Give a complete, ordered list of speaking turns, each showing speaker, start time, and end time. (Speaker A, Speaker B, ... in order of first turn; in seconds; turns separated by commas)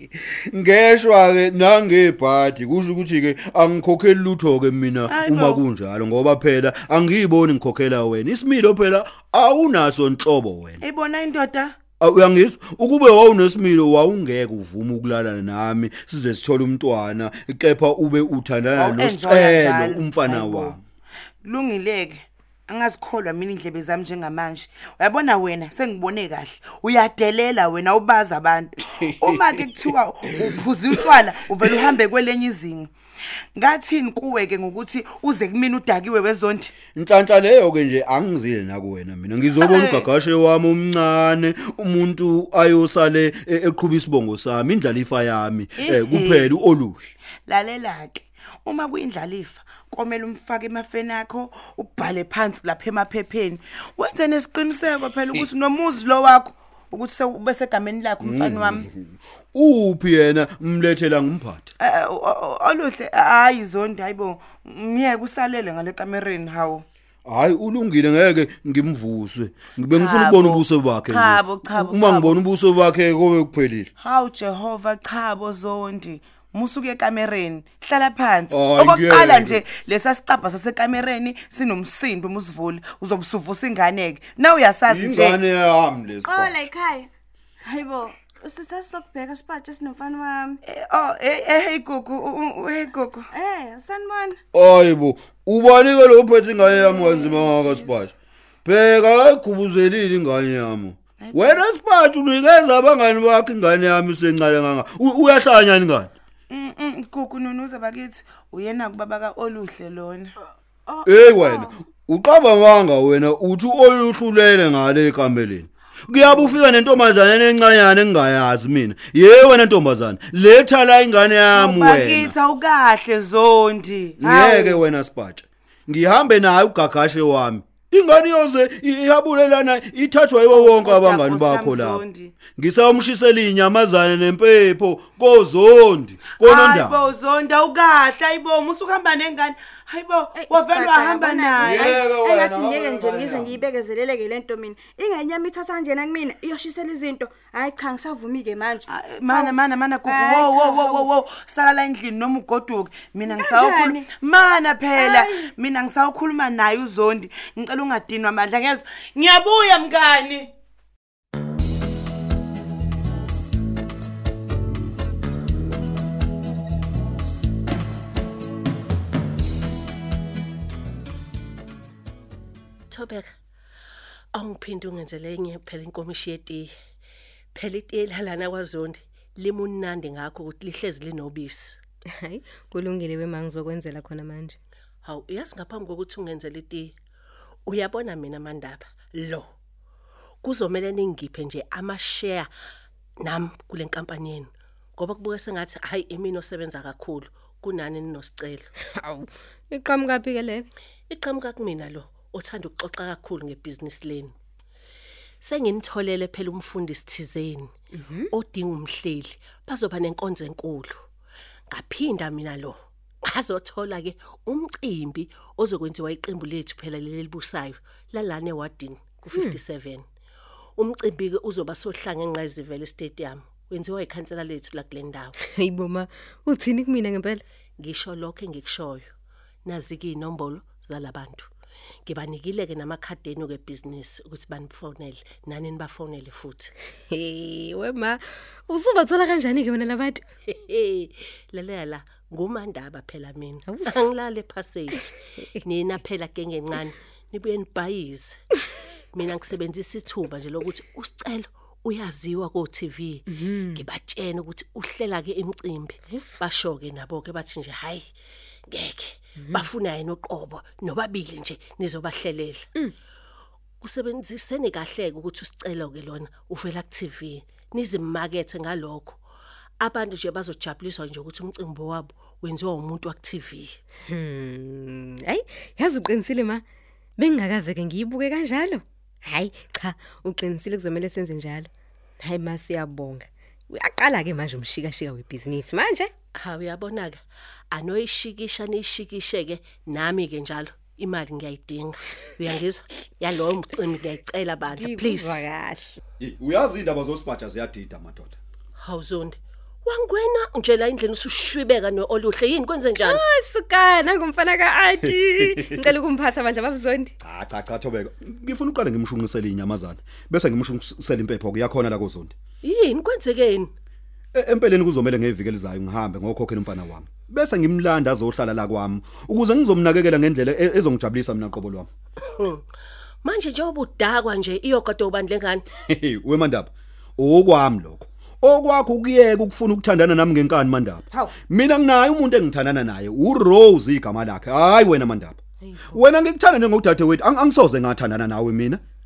Speaker A: 0.5-10.8, Speaker B: 5.1-5.6, Speaker B: 10.8-11.8, Speaker A: 12.0-20.8, Speaker B: 18.8-20.8, Speaker B: 21.4-32.9, Speaker B: 33.5-36.7, Speaker A: 36.9-47.0, Speaker B: 39.6-40.1, Speaker B: 45.8-46.5, Speaker B: 47.5-58.9, Speaker A: 58.2-61.7, Speaker B: 61.8-66.8, Speaker A: 67.2-73.9, Speaker B: 69.9-72.4, Speaker B: 74.0-85.4, Speaker A: 78.5-79.6, Speaker A: 84.9-86.7, Speaker C: 86.2-87.1, Speaker C: 87.6-90.6, Speaker B: 90.7-93.3, Speaker C: 93.3-94.4, Speaker A: 94.5-98.1, Speaker B: 96.8-97.3, Speaker A: 98.6-106.1, Speaker B: 101.2-101.6, Speaker B: 106.5-110.3, Speaker C: 110.9-111.7, Speaker A: 111.0-122.3, Speaker B: 116.2-116.6, Speaker B: 121.5-124.8, Speaker A: 124.2-132.0, Speaker B: 130.5-132.3, Speaker A: 132.6-137.0, Speaker B: 136.4-141.8, Speaker C: 140.3-149.5, Speaker A: 141.6-143.6, Speaker B: 148.9-160.5, Speaker C: 150.1-151.1, Speaker C: 153.3-154.1, Speaker C: 154.9-155.5, Speaker D: 172.9-173.3, Speaker D: 174.3-176.7, Speaker D: 177.5-181.8, Speaker E: 182.2-184.6, Speaker D: 185.0-186.9, Speaker D: 187.7-189.5, Speaker D: 190.4-192.5, Speaker D: 193.2-198.7, Speaker E: 198.9-200.7, Speaker D: 201.1-204.3, Speaker D: 205.4-207.7, Speaker E: 207.9-208.3, Speaker D: 208.3-211.0, Speaker D: 211.7-220.1, Speaker D: 220.8-225.3, Speaker E: 225.4-227.4, Speaker D: 227.8-229.1, Speaker D: 229.7-231.5, Speaker D: 232.1-236.7, Speaker E: 237.1-240.2, Speaker D: 240.6-248.4, Speaker E: 243.7-244.0, Speaker D: 249.1-258.1, Speaker E: 253.3-253.8, Speaker E: 256.1-256.4, Speaker D: 258.7-262.7, Speaker E: 259.4-259.6, Speaker D: 263.8-269.2, Speaker D: 269.8-273.8, Speaker E: 274.1-276.6, Speaker E: 277.2-281.7, Speaker E: 282.2-286.1, Speaker D: 286.4-287.2, Speaker D: 287.7-295.4, Speaker E: 294.7-296.0, Speaker A: 296.2-298.4, Speaker D: 298.8-303.2, Speaker E: 303.0-307.1, Speaker A: 305.4-305.8, Speaker A: 307.2-312.3, Speaker D: 312.6-313.7, Speaker A: 314.3-321.9, Speaker D: 322.4-322.6, Speaker D: 323.2-325.6, Speaker A: 325.8-338.8, Speaker E: 335.6-336.0